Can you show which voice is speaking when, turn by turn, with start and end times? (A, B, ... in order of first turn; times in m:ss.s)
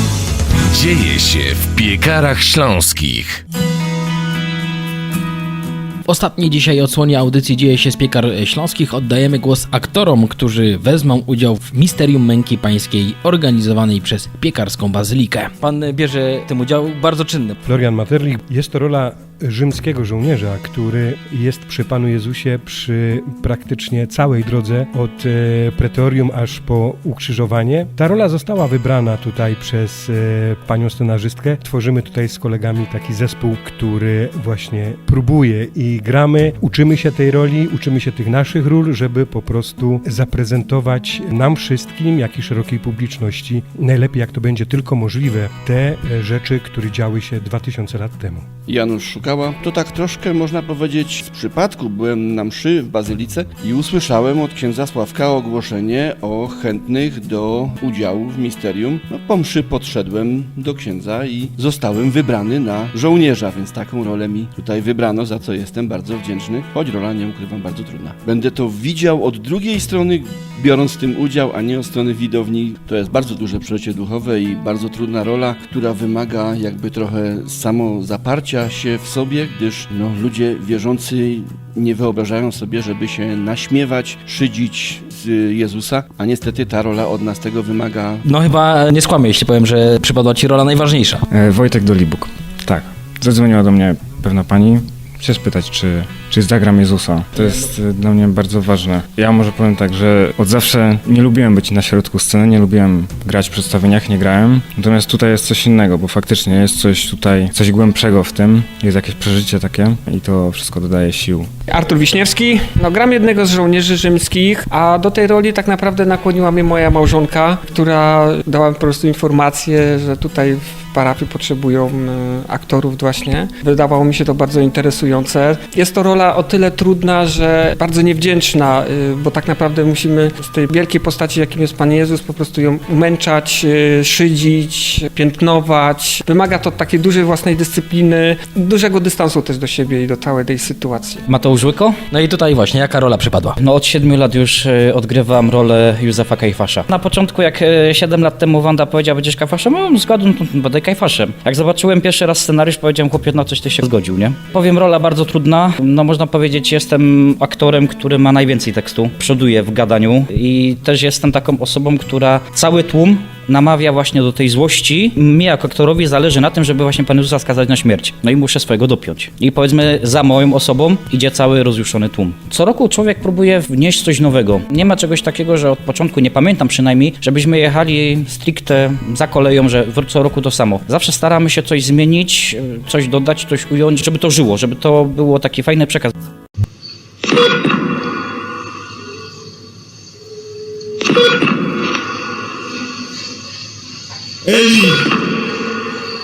0:00.7-0:03.4 A
0:06.1-0:17.6 B
0:17.7-0:48.4 C
0:48.7-1:28.2 D
1:28.2-1:31.2 B
1:31.3-1:51.5 E
1:51.7-2:21.2 F
2:21.3-2:22.0 G
2:22.1-2:23.6 B
2:23.6-3:06.1 G